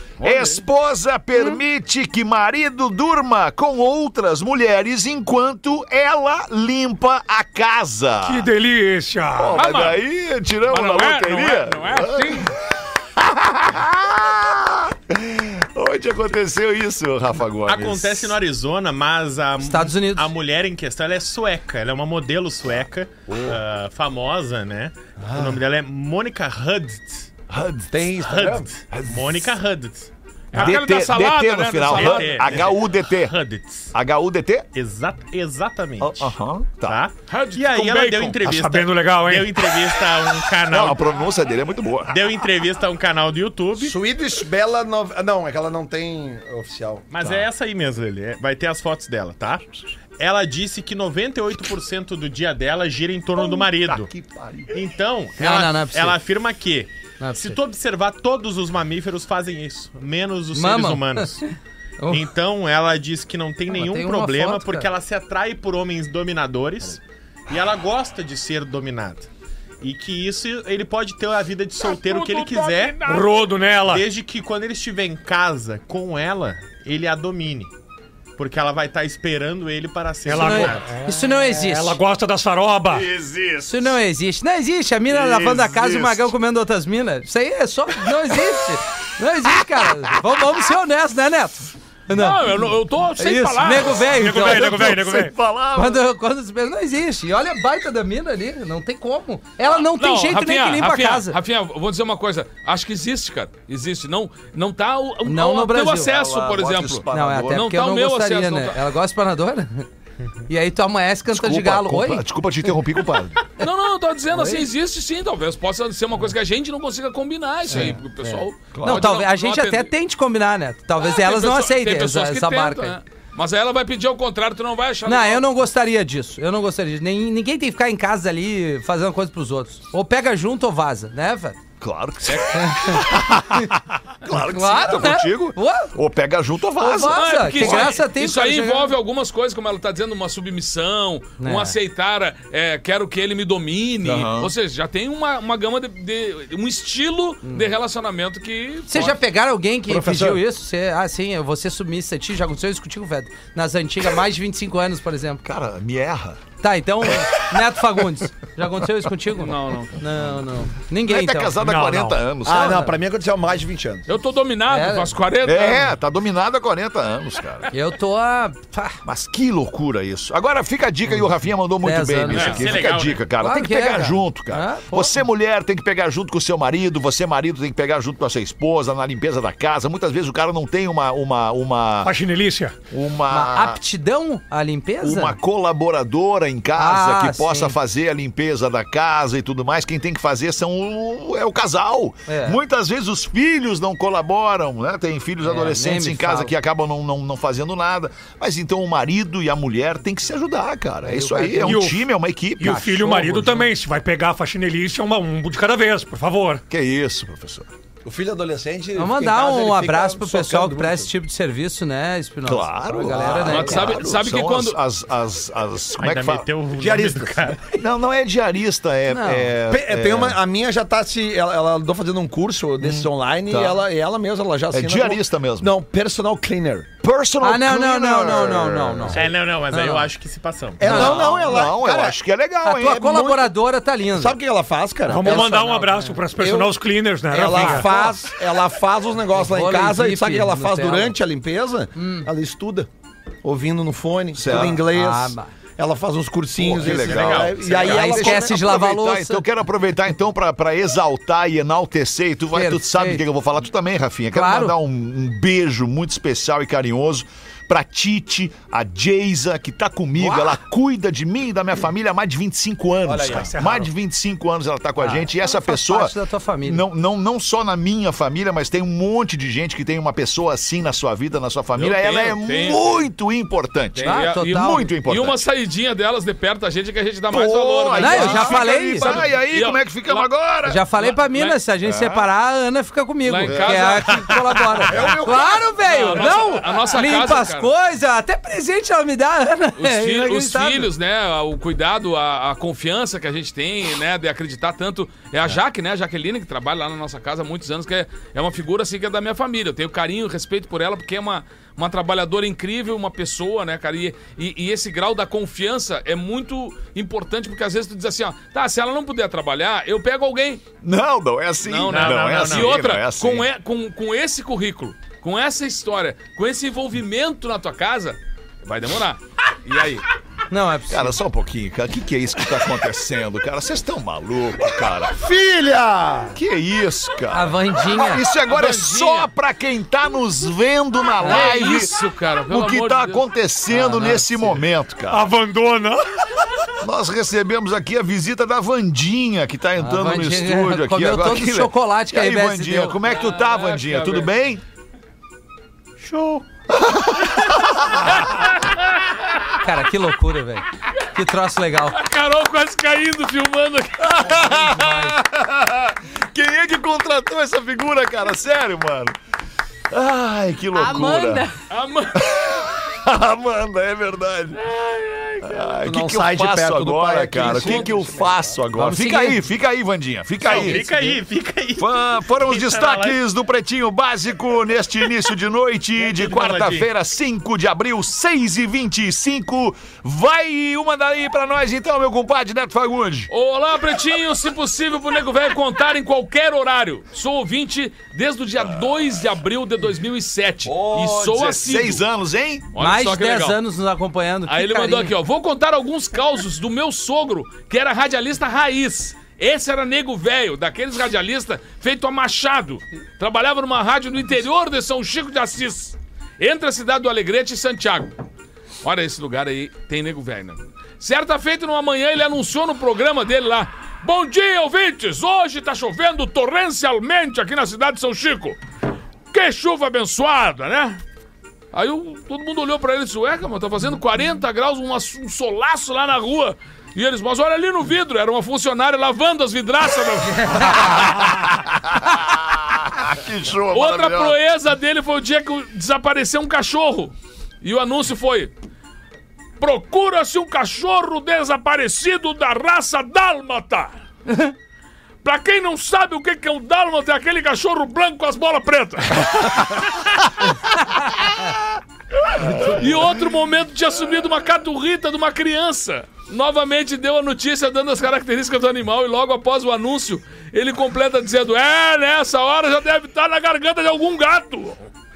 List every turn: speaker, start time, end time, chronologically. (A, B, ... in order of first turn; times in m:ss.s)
0:00.2-0:08.5 A
0:08.2-0:09.6 B
0:09.3-0:18.4 A
0:09.5-0:10.0 C
0:10.7-0:12.5 C
0:17.6-0:27.3 D
0:19.6-0:20.3 E
0:23.3-0:23.6 A
0:27.5-0:27.9 A
0:27.9-0:28.7 F
0:28.2-0:30.7 D
0:28.9-0:29.5 A
0:30.5-0:32.6 C
0:30.5-0:33.3 A
0:31.9-0:33.9 D
0:33.9-0:34.7 A
0:34.7-0:41.2 D
0:36.0-0:37.0 A
0:37.3-0:38.4 C
0:38.4-0:39.8 B
0:40.7-0:42.2 A
0:42.1-0:44.0 D
0:43.8-0:47.0 F
0:47.1-0:49.6 D
0:47.2-0:47.5 A
0:50.2-0:54.1 D
0:53.4-0:54.8 A
0:54.7-1:01.5 D
0:55.4-0:56.2 E
0:57.2-0:57.6 E
1:00.5-1:02.2 E
1:02.1-1:09.3 D
1:03.7-1:04.9 E
1:09.8-1:13.0 D
1:11.8-1:13.5 C
1:13.0-1:14.1 B
1:13.7-1:17.7 D
1:18.4-1:20.9 D
1:20.2-1:23.1 B
1:20.3-1:22.0 E
1:22.9-1:24.0 A
1:23.6-1:32.6 E
1:25.1-1:26.3 A
1:32.1-1:34.0 C
1:33.2-1:35.0 E
1:34.0-1:35.3 B
1:34.3-1:36.0 A
1:35.7-1:41.4 E
1:39.8-1:48.8 C
1:45.2-1:46.1 E
1:46.0-1:47.7 A
1:47.1-1:49.9 E
1:50.5-1:52.2 E
1:51.3-1:53.4 A
1:53.6-1:59.9 C
1:54.3-1:54.7 E
1:57.7-2:03.0 E
1:58.7-1:59.1 A
2:01.0-2:05.4 C
2:05.0-2:11.6 E
2:11.8-2:17.9 A
2:12.3-2:12.6 C
2:12.5-2:13.7 E
2:14.4-2:15.9 E
2:16.8-2:18.9 E
2:17.1-2:29.2 C
2:21.4-2:21.8 E
2:24.0-2:24.5 A
2:28.9-2:35.4 E
2:29.9-2:30.4 F
2:35.4-2:36.4 A
2:36.6-2:41.6 E
2:39.3-2:40.0 C
2:41.0-2:42.9 A
2:41.6-2:42.2 B
2:42.4-2:44.0 F
2:44.1-2:45.9 C
2:44.7-2:45.1 E
2:45.4-2:47.7 A
2:47.7-2:49.0 E
2:49.0-3:02.1 A
2:51.8-2:52.6 E
2:52.3-2:52.6 C
2:52.4-2:53.2 D
2:53.4-2:55.2 E
3:02.0-3:02.7 B
3:02.9-3:03.8 A
3:03.3-3:05.4 E
3:05.0-3:23.2 A
3:06.8-3:07.8 E
3:12.3-3:12.6 E
3:15.4-3:16.5 E
3:21.0-3:21.9 E
3:21.6-3:22.0 B
3:22.6-3:26.6 B
3:22.6-3:23.6 E
3:26.7-3:27.7 A
3:28.0-3:31.1 F
3:29.0-3:33.9 E
3:32.4-3:36.5 A
3:33.0-3:34.0 F
3:33.4-3:34.8 C
3:36.0-3:37.6 D
3:36.7-3:37.6 F
3:37.7-3:40.4 A
3:39.1-3:39.5 E
3:39.7-3:46.9 F
3:42.8-3:43.8 A
3:44.7-3:45.7 A
3:47.0-3:49.3 A
3:47.4-3:50.1 E
3:49.1-3:50.9 D
3:50.8-3:52.2 F
3:50.8-3:53.1 A
3:50.8-3:51.3 E
3:52.6-3:54.4 E
3:52.8-3:53.6 F
3:54.1-3:55.6 F
3:55.1-3:58.3 B
3:55.1-3:56.2 E
3:56.4-4:02.9 F
3:57.5-3:57.9 E
3:59.3-4:01.2 E
4:02.0-4:02.3 E
4:03.4-4:08.6 F
4:04.3-4:04.8 A
4:04.5-4:05.5 E
4:06.6-4:35.4 A
4:06.8-4:08.0 D
4:07.8-4:09.4 E
4:12.5-4:13.2 E
4:14.3-4:14.8 E
4:20.2-4:20.6 E
4:23.2-4:23.9 B
4:25.0-4:26.8 E
4:31.8-4:33.0 C
4:33.9-4:40.3 C
4:34.0-4:34.9 E
4:37.3-4:40.8 A
4:38.0-4:39.1 E
4:40.6-4:50.9 E
4:41.0-4:41.6 C
4:41.8-4:42.3 A
4:43.2-4:44.4 C
4:43.5-4:43.9 A
4:44.8-4:46.4 A
4:45.8-4:47.7 C
4:49.8-5:10.6 C
5:10.8-5:13.5 A
5:11.6-5:20.1 C
5:11.8-5:12.8 D
5:20.5-5:21.2 E
5:20.9-5:25.2 A
5:25.1-5:26.4 F
5:26.3-5:32.0 A
5:27.3-5:28.2 E
5:28.4-5:29.3 C
5:31.2-5:31.5 E
5:31.2-5:33.2 C
5:32.5-5:35.3 A
5:33.7-5:34.6 E
5:35.1-5:36.5 B
5:36.8-5:44.6 A
5:39.8-5:43.0 E
5:43.0-5:44.3 C
5:46.1-5:46.4 B
5:46.7-5:48.2 A
5:48.3-5:48.8 C
5:49.6-5:52.0 E
5:51.9-5:54.6 C
5:54.2-5:59.2 A
5:54.4-5:55.2 E
5:59.9-6:01.5 A
6:01.0-6:01.3 E
6:01.7-6:02.4 C
6:02.2-6:04.6 A
6:04.6-6:05.8 C
6:05.4-6:10.9 A
6:05.8-6:08.6 F
6:07.4-6:07.9 C
6:08.7-6:09.4 E
6:10.4-6:13.2 D
6:10.6-6:11.1 E
6:11.8-6:23.3 A
6:16.0-6:16.9 D
6:23.3-6:32.0 C
6:30.6-6:31.4 F
6:31.2-6:32.7 A
6:32.7-6:33.6 C
6:32.8-6:35.1 E
6:34.5-6:48.1 C
6:48.8-6:58.6 C
6:59.3-7:01.0 C
7:01.7-7:11.2 C
7:10.3-7:11.0 E
7:10.7-7:14.4 A
7:13.7-7:18.5 C
7:19.6-7:23.9 C
7:25.2-7:30.3 C
7:30.9-7:31.3 C
7:32.2-7:44.9 C